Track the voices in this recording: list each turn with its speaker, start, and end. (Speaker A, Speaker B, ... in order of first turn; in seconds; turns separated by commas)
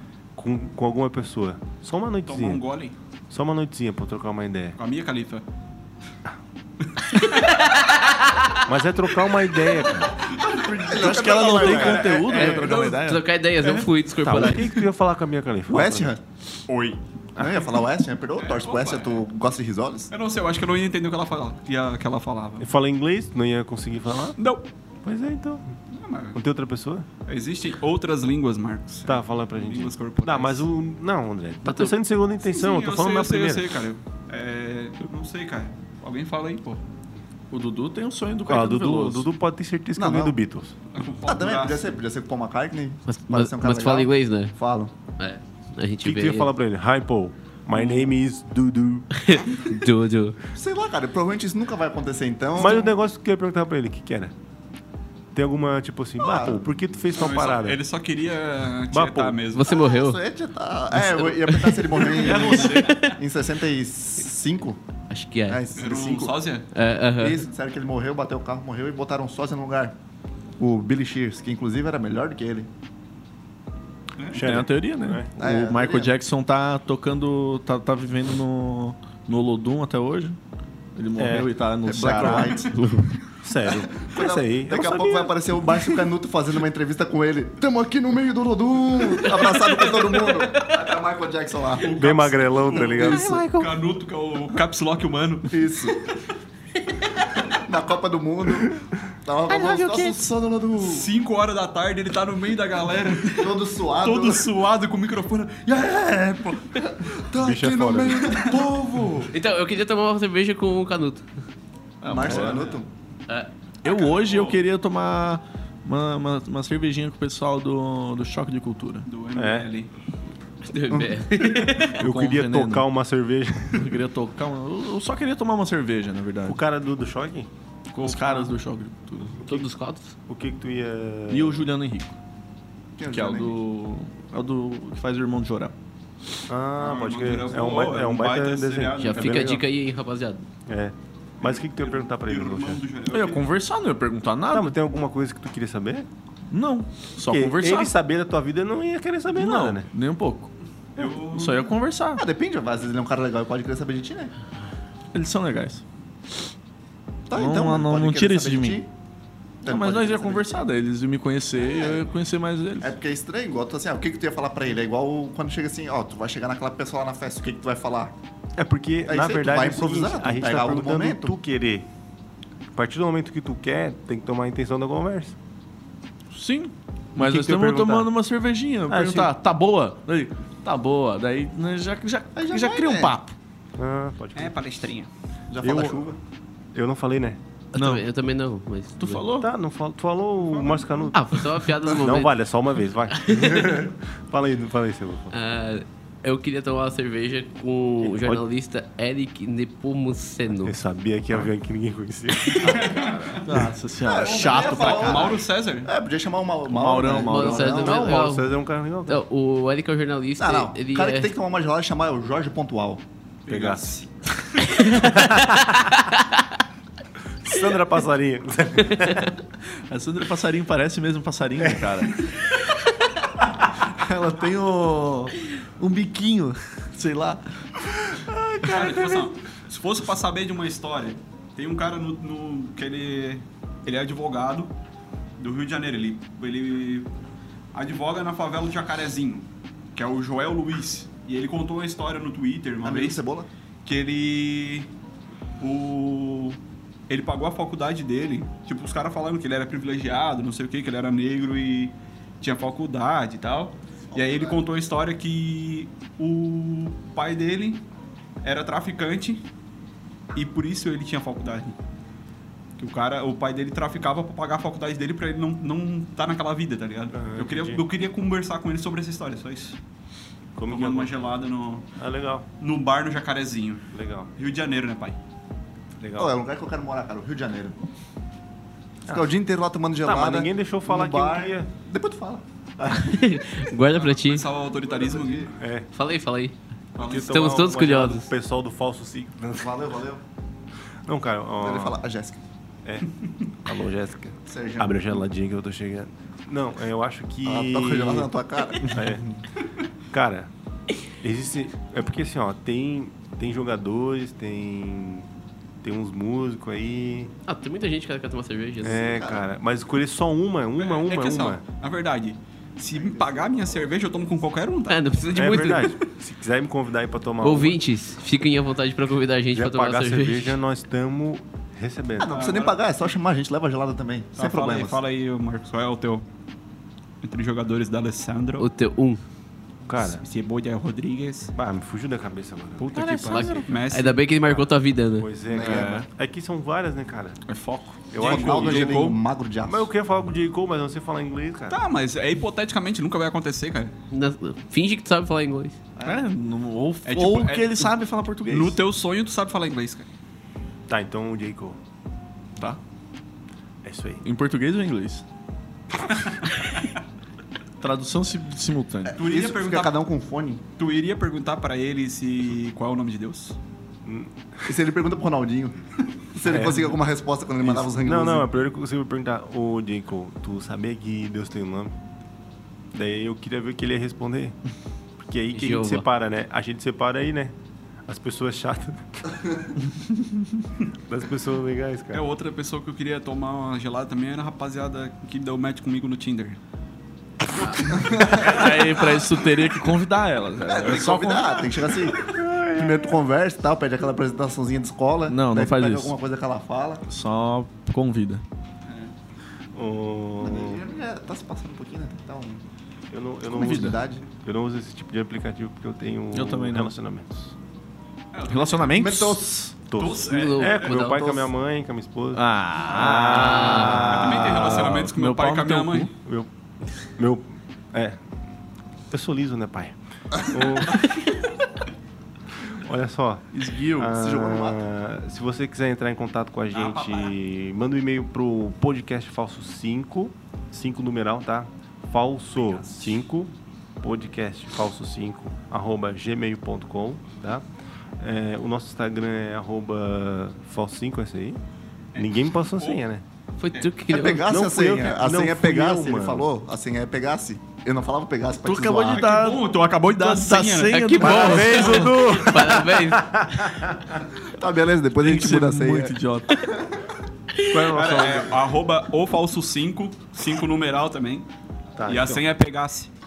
Speaker A: 0.4-2.6, Speaker B: 2.3-3.0, Speaker A: 3.3-4.8, Speaker B: 4.8-5.5, Speaker C: 7.2-8.5, Speaker A: 8.7-10.1, Speaker B: 10.3-13.1, Speaker D: 10.6-12.4, Speaker E: 10.6-13.2, Speaker C: 12.5-14.8, Speaker A: 14.2-16.1, Speaker D: 15.7-16.2, Speaker B: 16.7-17.0, Speaker A: 17.4-17.6, Speaker D: 17.4-20.1, Speaker B: 18.4-19.2, Speaker B: 20.1-22.7, Speaker A: 22.6-24.4, Speaker B: 24.4-24.7, Speaker A: 25.0-25.7, Speaker B: 25.9-26.4, Speaker A: 26.3-27.1, Speaker B: 27.3-30.7, Speaker A: 29.1-33.7, Speaker B: 32.4-36.8, Speaker E: 37.5-39.3, Speaker A: 38.5-40.8, Speaker D: 40.0-40.4, Speaker B: 40.9-41.9, Speaker D: 41.3-44.9, Speaker C: 43.1-44.5, Speaker C: 45.2-46.5, Speaker A: 46.0-49.1, Speaker B: 47.7-48.1, Speaker C: 49.2-50.4, Speaker D: 50.6-52.9, Speaker A: 52.6-54.3, Speaker A: 55.3-57.8, Speaker D: 56.2-56.6, Speaker B: 57.1-59.8, Speaker A: 58.9-59.4, Speaker C: 59.5-60.2, Speaker D: 59.7-64.8, Speaker C: 61.0-63.1, Speaker B: 62.1-63.2, Speaker E: 62.1-63.1, Speaker C: 65.1-65.6, Speaker D: 65.5-66.5, Speaker B: 65.8-66.7, Speaker C: 66.7-67.4, Speaker D: 67.2-70.0, Speaker D: 70.6-72.7, Speaker A: 74.3-75.3, Speaker E: 74.4-80.4, Speaker D: 75.4-76.1, Speaker E: 81.0-82.7, Speaker A: 81.2-81.5, Speaker D: 81.8-82.8, Speaker A: 82.1-82.5, Speaker C: 82.7-83.2, Speaker A: 83.4-85.3, Speaker D: 84.0-91.9, Speaker B: 91.8-96.2, Speaker A: 92.0-93.4, Speaker D: 92.7-93.5, Speaker C: 93.3-93.6, Speaker D: 95.5-96.0, Speaker D: 97.5-101.1, Speaker C: 99.5-100.2, Speaker B: 100.8-105.8, Speaker D: 103.3-104.5, Speaker D: 105.7-109.3, Speaker A: 107.4-108.3, Speaker C: 109.3-111.3, Speaker E: 112.0-112.7, Speaker D: 112.1-112.9, Speaker E: 113.8-119.1, Speaker B: 114.2-114.6, Speaker B: 119.1-119.9, Speaker A: 119.3-119.7, Speaker C: 120.6-122.0, Speaker A: 122.0-123.9, Speaker E: 122.0-122.9, Speaker E: 123.7-126.6, Speaker A: 126.5-127.5, Speaker E: 127.9-129.4, Speaker B: 128.0-128.5, Speaker A: 129.4-129.7, Speaker C: 129.4-130.1, Speaker A: 130.3-131.7, Speaker E: 131.3-132.2, Speaker D: 133.0-133.6, Speaker E: 133.0-135.7, Speaker A: 136.5-139.7, Speaker B: 136.8-139.4, Speaker C: 139.0-140.4, Speaker A: 140.7-142.8, Speaker B: 141.4-143.5, Speaker E: 143.1-144.7, Speaker A: 144.5-146.1, Speaker E: 146.5-147.9, Speaker A: 147.2-149.9, Speaker E: 149.3-150.5, Speaker B: 151.0-151.7, Speaker E: 151.3-152.2, Speaker D: 152.2-154.3, Speaker E: 155.1-155.8, Speaker D: 157.3-158.9, Speaker E: 157.3-158.8, Speaker E: 159.6-162.9, Speaker D: 159.7-160.6, Speaker D: 161.7-162.1, Speaker D: 162.8-168.1, Speaker A: 168.6-171.9, Speaker D: 169.1-171.4, Speaker A: 172.8-175.3, Speaker E: 176.3-183.3, Speaker A: 177.2-178.1, Speaker A: 178.9-179.3, Speaker D: 182.3-183.1, Speaker A: 183.8-184.6, Speaker B: 184.4-185.1, Speaker D: 185.5-186.2, Speaker A: 185.6-186.2, Speaker A: 186.7-187.4, Speaker C: 187.7-189.2, Speaker E: 187.8-188.1, Speaker E: 189.0-189.5, Speaker A: 189.4-195.3, Speaker B: 190.5-191.1, Speaker C: 191.1-192.3, Speaker C: 193.1-193.9, Speaker C: 195.3-200.8, Speaker A: 200.6-202.9, Speaker B: 202.6-203.5, Speaker E: 203.4-205.4, Speaker D: 204.1-208.2, Speaker B: 204.2-205.9, Speaker E: 206.7-208.0, Speaker C: 207.1-208.6, Speaker A: 207.7-209.2, Speaker C: 209.1-211.3, Speaker D: 210.4-213.0, Speaker B: 213.4-214.1, Speaker A: 213.5-213.9, Speaker C: 214.6-215.8, Speaker A: 214.9-215.8, Speaker A: 217.4-219.3, Speaker E: 219.9-222.3, Speaker E: 223.9-229.3, Speaker B: 228.6-234.7, Speaker B: 235.4-237.1, Speaker B: 237.7-243.2, Speaker D: 242.8-243.5, Speaker B: 243.8-244.9, Speaker B: 245.6-246.6, Speaker B: 247.1-257.8, Speaker D: 254.1-254.6, Speaker B: 258.4-259.4, Speaker B: 260.4-261.8, Speaker B: 262.8-269.8, Speaker A: 267.1-267.8, Speaker A: 270.6-271.2, Speaker B: 270.7-271.9, Speaker A: 272.0-272.5, Speaker B: 272.6-275.2, Speaker A: 273.9-274.3, Speaker A: 276.0-276.3, Speaker D: 276.2-277.8, Speaker D: 279.1-282.4, Speaker A: 280.0-281.7, Speaker C: 282.9-284.5, Speaker B: 283.9-285.6, Speaker D: 284.7-285.5, Speaker A: 285.6-285.9, Speaker C: 285.9-288.3, Speaker A: 286.9-289.7, Speaker B: 287.0-287.3, Speaker D: 289.5-290.2, Speaker A: 291.1-292.0, Speaker D: 291.6-292.4, Speaker A: 293.6-299.2, Speaker D: 294.5-295.2, Speaker D: 297.4-299.4, Speaker A: 300.1-300.5, Speaker A: 301.2-305.3, Speaker A: 305.8-307.3, Speaker C: 307.5-309.2, Speaker A: 308.8-311.6, Speaker D: 308.9-309.4, Speaker B: 310.8-316.0, Speaker D: 313.0-313.9, Speaker C: 314.9-315.9, Speaker A: 315.3-317.8, Speaker C: 317.4-320.6, Speaker A: 319.5-322.5, Speaker D: 322.2-325.0, Speaker B: 322.2-322.8, Speaker B: 324.4-326.3, Speaker B: 327.2-328.7, Speaker C: 328.6-329.2, Speaker A: 329.9-330.2, Speaker B: 330.0-331.5, Speaker A: 331.6-333.6, Speaker E: 332.9-333.6, Speaker B: 332.9-334.3, Speaker C: 332.9-335.3, Speaker A: 334.4-337.4, Speaker D: 335.5-336.1, Speaker E: 335.6-336.1, Speaker E: 337.5-338.1, Speaker A: 338.1-339.0, Speaker B: 338.2-339.2, Speaker D: 338.2-339.9, Speaker A: 339.6-341.8, Speaker B: 341.7-343.9, Speaker C: 344.1-345.8, Speaker E: 346.0-348.8, Speaker B: 347.1-347.9, Speaker B: 348.5-350.1, Speaker A: 350.9-351.8, Speaker A: 353.8-354.2, Speaker E: 354.2-355.2, Speaker E: 357.8-359.2, Speaker D: 359.1-360.6, Speaker B: 359.2-360.0, Speaker B: 360.8-363.6, Speaker A: 364.1-364.3, Speaker D: 364.7-365.8, Speaker D: 366.3-368.5, Speaker A: 366.4-366.9, Speaker A: 367.6-371.9, Speaker A: 372.9-374.6, Speaker A: 375.2-377.6, Speaker C: 375.5-376.1, Speaker A: 378.1-379.4, Speaker A: 381.1-382.3, Speaker B: 382.1-386.6, Speaker D: 387.9-389.1, Speaker E: 388.3-391.7, Speaker D: 390.7-397.0, Speaker A: 392.2-393.2, Speaker E: 395.3-396.1, Speaker E: 397.1-398.4, Speaker B: 398.9-399.1, Speaker A: 399.7-400.8, Speaker D: 400.4-402.6, Speaker A: 403.1-407.6, Speaker D: 403.5-404.3, Speaker E: 403.5-404.0, Speaker E: 406.3-406.9, Speaker B: 408.3-409.0, Speaker E: 408.5-409.4, Speaker D: 408.9-409.7, Speaker A: 409.9-415.1, Speaker B: 410.0-411.1, Speaker C: 410.2-411.5, Speaker E: 412.3-416.1, Speaker C: 413.4-414.1, Speaker B: 414.1-416.1, Speaker A: 416.2-416.5, Speaker A: 417.1-418.2, Speaker A: 419.1-421.1, Speaker A: 422.6-437.6, Speaker E: 423.5-424.1, Speaker D: 424.1-424.8, Speaker B: 426.7-427.3, Speaker B: 432.6-433.1, Speaker A: 438.2-441.6, Speaker B: 442.1-443.0, Speaker A: 442.2-443.2, Speaker C: 443.6-444.5, Speaker D: 444.1-449.3, Speaker A: 444.5-446.5, Speaker E: 448.6-452.1, Speaker B: 449.1-452.4, Speaker A: 451.1-454.2, Speaker C: 451.3-453.8, Speaker D: 454.5-456.2, Speaker E: 455.2-456.7, Speaker C: 457.6-458.0, Speaker A: 457.7-458.6, Speaker B: 457.9-461.5, Speaker A: 462.0-462.4, Speaker B: 462.0-463.1